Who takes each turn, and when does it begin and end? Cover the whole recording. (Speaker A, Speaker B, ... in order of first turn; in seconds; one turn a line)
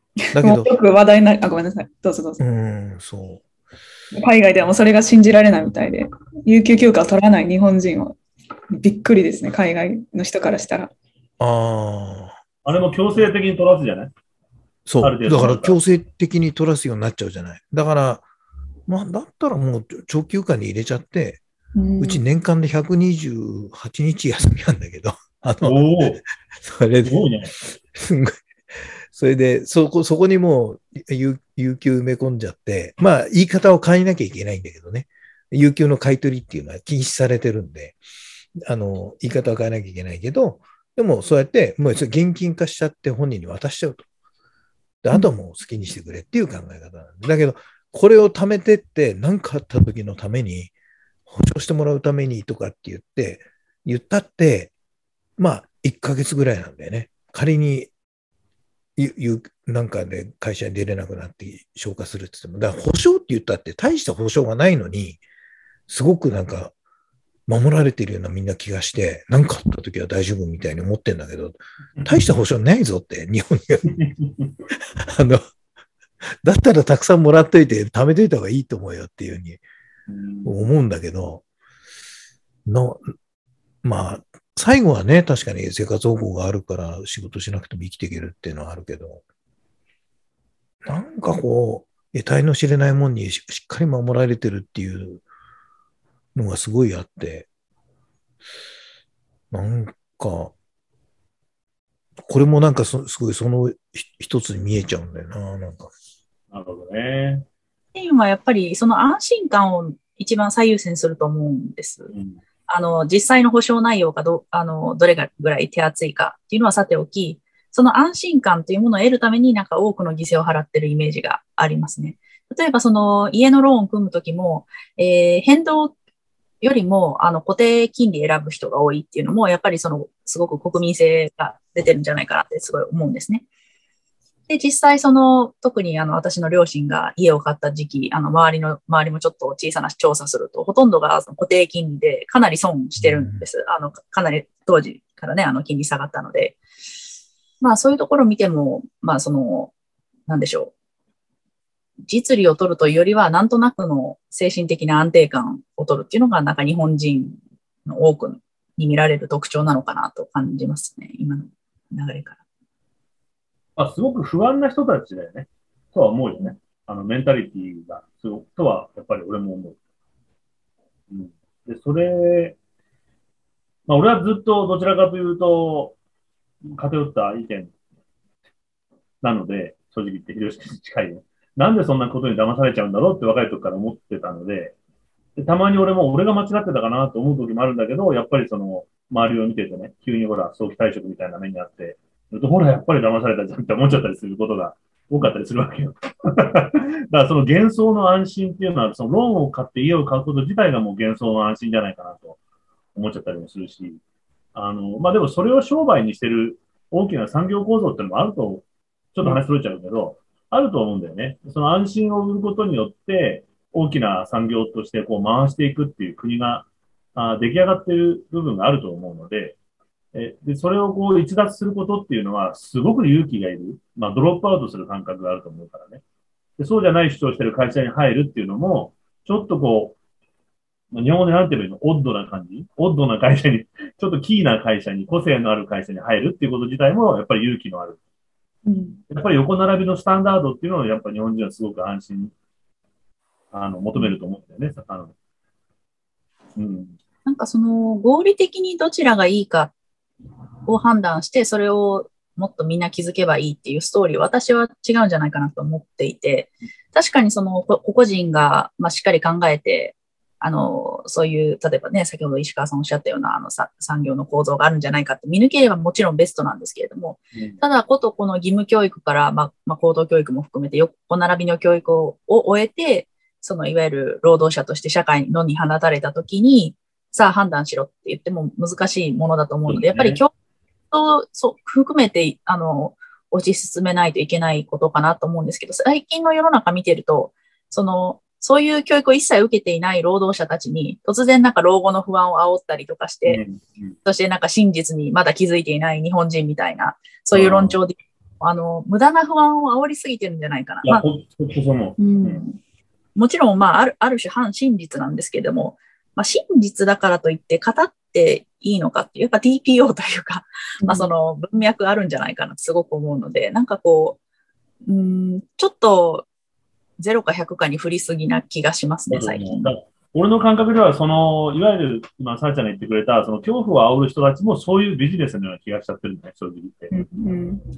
Speaker A: 0.3-0.7
Speaker B: 0.3-2.4
Speaker A: 2.4-3.4
Speaker B: 4.1-8.2
Speaker B: 8.7-10.9
Speaker A: 11.4-12.4
Speaker C: 12.7-14.1
Speaker A: 14.9-18.2
Speaker C: 15.0-15.8
Speaker A: 18.9-21.4
Speaker B: 21.8-22.2
Speaker A: 22.0-28.4
Speaker C: 25.6-26.2
Speaker C: 27.0-27.5
Speaker A: 29.1-38.0
Speaker A: 38.6-44.0
Speaker A: 45.0-50.7
Speaker A: 51.3-54.7
Speaker A: 55.4-57.9
Speaker A: 59.0-65.2
Speaker A: 65.9-66.7
Speaker A: 67.5-73.9
Speaker C: 73.9-74.5
Speaker A: 75.0-75.4
Speaker A: 76.4-79.6
Speaker C: 80.1-80.5
Speaker A: 80.5-81.4
Speaker A: 82.7-83.0
Speaker A: 83.8-89.2
Speaker A: 90.8-95.2
Speaker A: 96.3-97.5
Speaker A: 99.5-100.5
Speaker A: 102.2-105.9
Speaker C: 106.5-107.5
Speaker D: 108.0-112.1
Speaker C: 112.1-112.4
Speaker D: 112.7-125.9
Speaker D: 126.6-133.4
Speaker D: 134.5-146.6
Speaker A: 143.0-143.4
Speaker D: 147.6-149.7
Speaker D: 150.3-150.7
Speaker D: 152.1-162.4
Speaker C: 163.8-169.8
Speaker C: 171.1-172.6
Speaker C: 173.9-175.9
Speaker C: 176.7-177.7
Speaker C: 179.2-184.7
Speaker C: 185.4-202.4
Speaker C: 202.9-204.0
Speaker C: 204.6-219.6
Speaker C: 220.1-226.0
Speaker C: 226.6-230.0
Speaker C: 230.9-238.0
Speaker B: 238.7-239.0
Speaker C: 239.1-242.3
Speaker C: 243.5-245.1
Speaker C: 246.6-247.0
Speaker D: 247.3-249.7
Speaker D: 250.7-280.3
Speaker C: 279.7-280.2
Speaker D: 280.9-293.4
Speaker C: 293.3-293.9
Speaker D: 294.1-301.0
Speaker C: 297.3-297.8
Speaker C: 300.9-302.4
Speaker D: 302.0-302.6
Speaker D: 303.2-314.2
Speaker B: 310.8-311.1
Speaker D: 314.9-316.3
Speaker D: 317.0-319.7
Speaker C: 319.1-326.9
Speaker B: 326.9-327.6